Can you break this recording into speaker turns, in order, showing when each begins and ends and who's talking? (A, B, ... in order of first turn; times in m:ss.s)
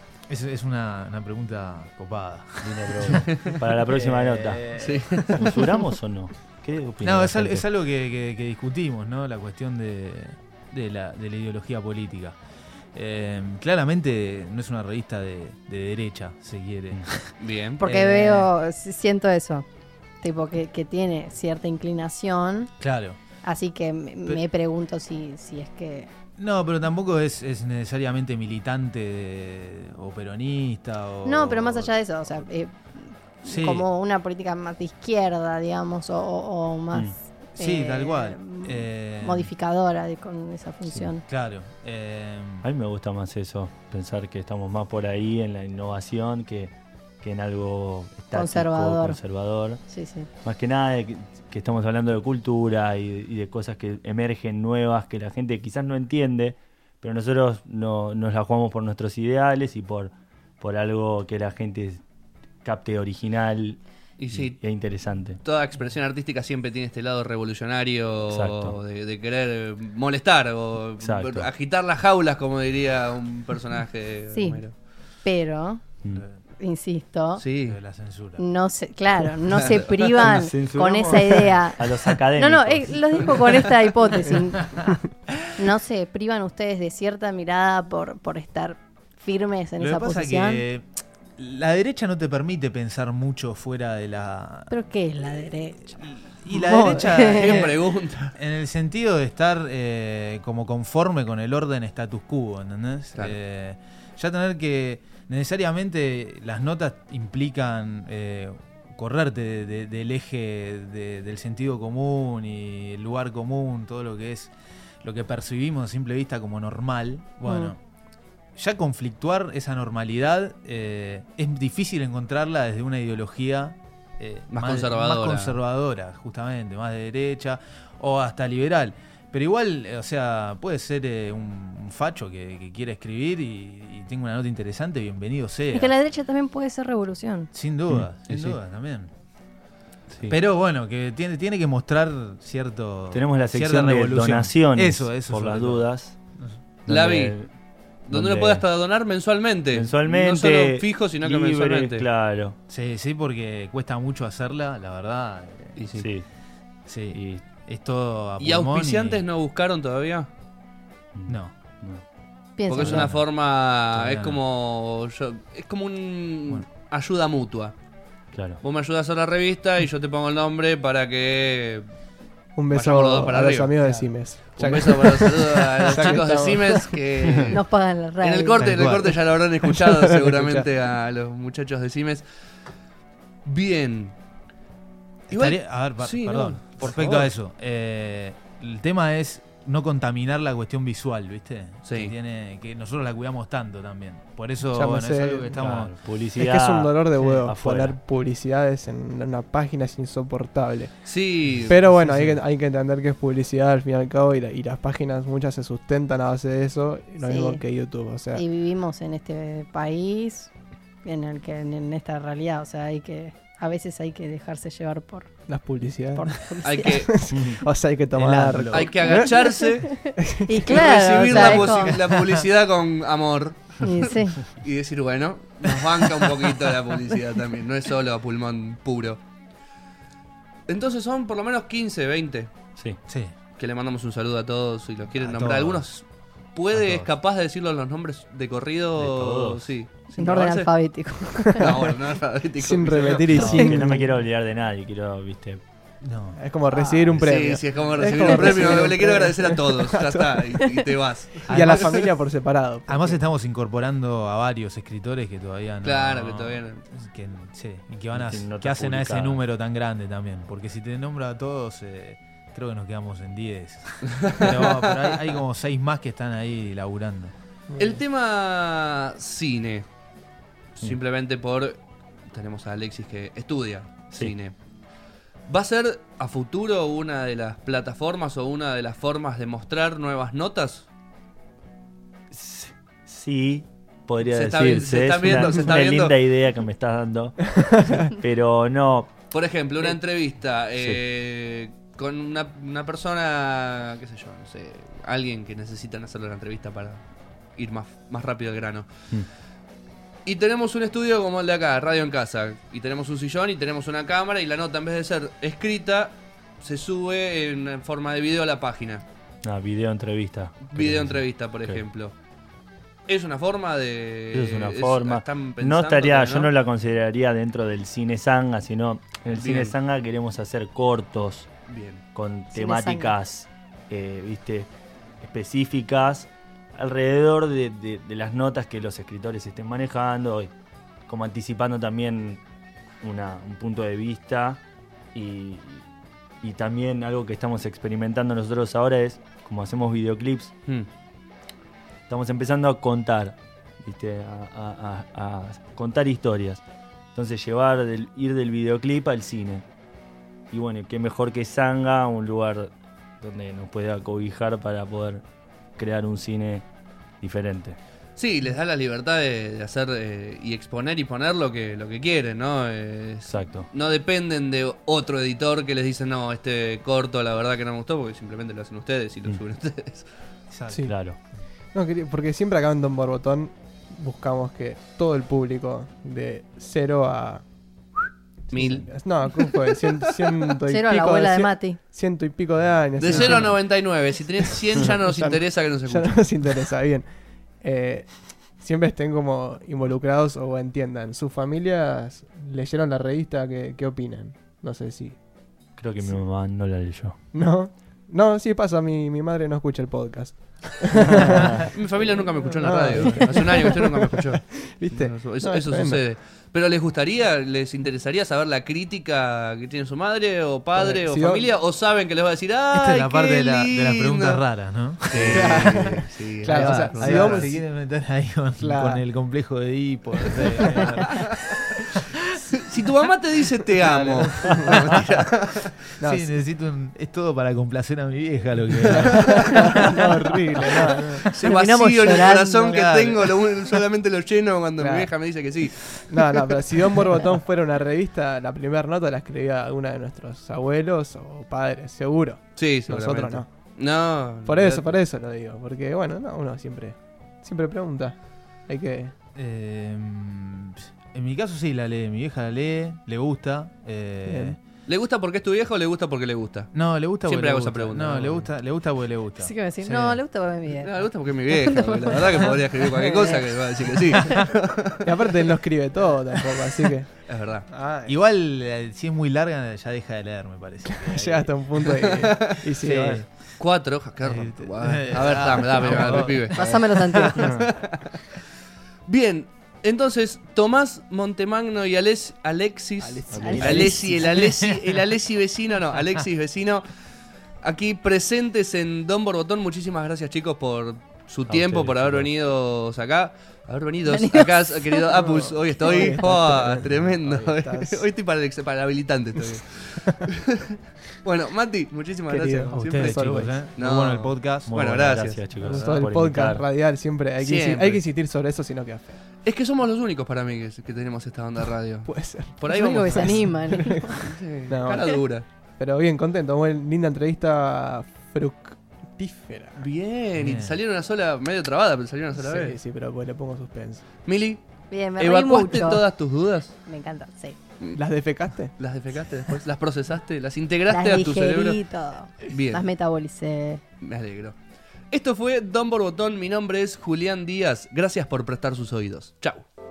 0:00.3-0:05.5 A
0:02.6-0:07.6 B
0:03.3-0:03.5 C
0:04.8-0:05.6 C
0:07.0-0:12.4 A
0:12.9-0:18.5 A
0:17.4-0:17.8 C
0:17.8-0:19.7 D
0:20.2-0:22.7 D
0:22.8-0:23.2 A
0:23.4-0:26.1 D
0:26.4-0:31.9 A
0:31.2-0:41.2 D
0:33.4-0:33.9 A
0:37.6-0:39.5 A
0:41.2-0:42.7 A
0:42.6-0:49.8 B
0:48.3-0:49.2 D
0:49.8-0:50.3 D
0:50.4-1:02.0 B
1:02.6-1:03.8 B
1:04.2-1:04.6 C
1:04.3-1:05.4 B
1:05.4-1:14.7 C
1:08.3-1:08.8 B
1:11.0-1:11.5 B
1:14.3-1:14.6 D
1:15.2-1:15.8 D
1:16.1-1:16.4 A
1:16.6-1:17.4 D
1:17.4-1:17.8 C
1:17.7-1:18.4 A
1:18.4-1:24.9 D
1:19.6-1:20.1 C
1:20.2-1:23.6 B
1:25.6-1:30.6 D
1:29.8-1:34.7 A
1:34.7-1:37.7 D
1:36.0-1:37.8 A
1:37.2-1:38.4 C
1:38.4-1:57.8 A
1:57.4-1:57.7 D
1:58.6-2:15.9 A
2:04.5-2:05.6 C
2:15.7-2:17.5 D
2:17.5-2:19.1 A
2:18.3-2:18.6 C
2:20.1-2:20.4 B
2:20.3-2:25.9 A
2:23.1-2:26.2 B
2:26.9-2:27.4 C
2:26.9-2:27.5 B
2:28.1-2:32.1 C
2:28.1-2:28.6 B
2:29.7-2:32.6 B
2:32.7-2:35.8 A
2:35.8-2:36.1 C
2:35.9-2:36.3 B
2:36.9-2:39.2 A
2:37.1-2:37.5 B
2:38.4-2:40.3 C
2:41.1-2:42.0 B
2:41.3-2:41.6 A
2:42.6-2:43.1 D
2:42.7-2:47.7 C
2:42.8-2:43.3 A
2:43.9-2:44.4 A
2:48.3-2:48.6 B
2:48.6-2:51.9 C
2:52.6-2:57.0 E
2:52.7-3:02.2 C
2:57.5-2:58.8 D
2:58.6-2:59.2 A
2:59.7-3:00.7 E
3:03.4-3:04.2 C
3:05.3-3:07.3 C
3:05.3-3:15.9 A
3:11.9-3:12.1 C
3:14.7-3:15.7 E
3:15.6-3:18.0 B
3:16.4-3:21.1 E
3:21.1-3:21.8 C
3:21.6-3:22.4 A
3:21.7-3:28.4 E
3:27.2-3:27.6 D
3:28.3-3:30.5 D
3:31.0-3:35.5 D
3:35.5-3:39.3 E
3:36.1-3:37.1 D
3:36.6-3:37.2 C
3:37.3-3:37.6 B
3:38.1-3:39.0 A
3:38.7-3:40.0 C
3:39.1-3:42.0 D
3:40.2-3:40.9 E
3:40.6-3:49.2 C
3:41.1-3:42.5 A
3:43.8-3:44.4 D
3:50.7-3:52.5 C
3:53.1-3:53.3 A
3:53.6-4:00.7 C
3:55.2-3:55.9 A
3:56.7-3:57.1 A
3:59.0-3:59.7 B
4:00.2-4:01.6 D
4:01.5-4:03.6 C
4:02.6-4:04.1 E
4:03.3-4:05.6 B
4:06.0-4:06.4 A
4:06.4-4:10.5 E
4:06.7-4:07.1 D
4:07.2-4:12.0 C
4:08.1-4:08.8 D
4:11.5-4:12.0 A
4:11.5-4:13.2 E
4:12.9-4:27.3 A
4:15.8-4:16.8 C
4:18.1-4:19.4 B
4:24.2-4:24.5 C
4:27.7-4:28.0 E
4:27.8-4:29.8 C
4:30.8-4:34.5 C
4:35.5-4:40.9 C
4:42.3-4:49.2 B
4:44.3-4:46.2 C
4:49.3-4:57.0 C
4:57.6-4:58.9 C
5:00.3-5:09.1 C
5:09.4-5:11.8 B
5:10.7-5:12.1 C
5:13.1-5:16.5 C
5:14.3-5:21.5 B
5:19.4-5:19.8 C
5:21.7-5:22.0 C
5:22.2-5:24.7 B
5:22.5-5:23.2 D
5:25.2-5:30.5 B
5:31.1-5:32.4 B
5:33.0-5:34.6 B
5:35.1-5:35.9 B
5:36.4-5:40.5 B
5:42.1-5:46.6 B
5:47.1-5:49.7 B
5:50.5-5:55.2 B
5:55.8-5:56.7 B
5:57.2-5:57.8 B
5:58.2-6:10.1 C
6:03.3-6:03.7 B
6:10.5-6:11.4 A
6:10.8-6:11.2 B
6:11.7-6:17.4 E
6:18.0-6:27.1 E
6:18.5-6:20.4 C
6:20.7-6:21.8 D
6:23.0-6:26.3 C
6:27.6-6:35.2 E
6:35.8-6:37.2 B
6:37.3-6:46.0 E
6:40.9-6:41.7 B
6:41.7-6:54.4 C
6:50.8-6:51.5 E
6:52.7-7:01.5 A
6:55.1-6:57.5 C
6:55.1-6:57.6 E
6:58.6-6:59.0 E
7:00.3-7:01.1 E
7:02.5-7:05.8 C
7:03.9-7:04.3 A
7:03.9-7:04.7 E
7:06.0-7:06.4 E
7:06.0-7:10.2 A
7:08.9-7:11.3 E
7:11.3-7:16.0 C
7:11.4-7:13.3 D
7:14.8-7:15.1 E
7:16.0-7:23.5 E
7:22.6-7:25.0 C
7:24.4-7:29.1 E
7:29.4-7:34.6 A
7:34.3-7:34.6 E
7:34.9-7:36.7 C
7:36.7-7:40.2 A
7:37.2-7:38.5 C
7:39.4-7:43.6 D
7:40.8-7:45.5 C
7:45.0-7:47.1 E
7:47.2-7:47.7 C
7:47.7-7:48.1 E
7:48.0-7:51.5 A
7:50.9-7:53.2 E
7:51.8-7:52.5 C
7:52.8-7:53.6 A
7:53.6-7:58.4 C
7:54.2-7:56.8 A
7:56.5-7:57.5 D
7:59.1-8:06.9 C
8:03.0-8:04.3 E
8:03.3-8:03.8 B
8:03.4-8:04.2 D
8:03.5-8:05.1 A
8:07.6-8:26.0 C
8:11.5-8:12.3 B
8:14.1-8:15.3 D
8:15.2-8:18.0 E
8:15.9-8:16.2 D
8:22.3-8:23.6 E
8:22.7-8:25.0 A
8:24.7-8:26.7 B
8:25.6-8:29.2 E
8:27.4-8:28.0 C
8:29.4-8:33.5 C
8:32.1-8:35.2 E
8:32.6-8:34.2 D
8:34.2-8:35.5 C
8:35.8-8:39.9 E
8:39.8-8:42.8 C
8:40.4-8:40.8 A
8:42.4-8:44.0 E
8:44.3-8:44.6 C
8:44.9-8:46.0 D
8:45.2-8:46.8 C
8:46.9-8:47.6 D
8:48.0-8:48.7 E
8:48.8-8:51.8 C
8:50.9-8:53.8 D
8:52.5-8:52.8 C
8:54.0-8:54.6 C
8:55.1-8:59.6 C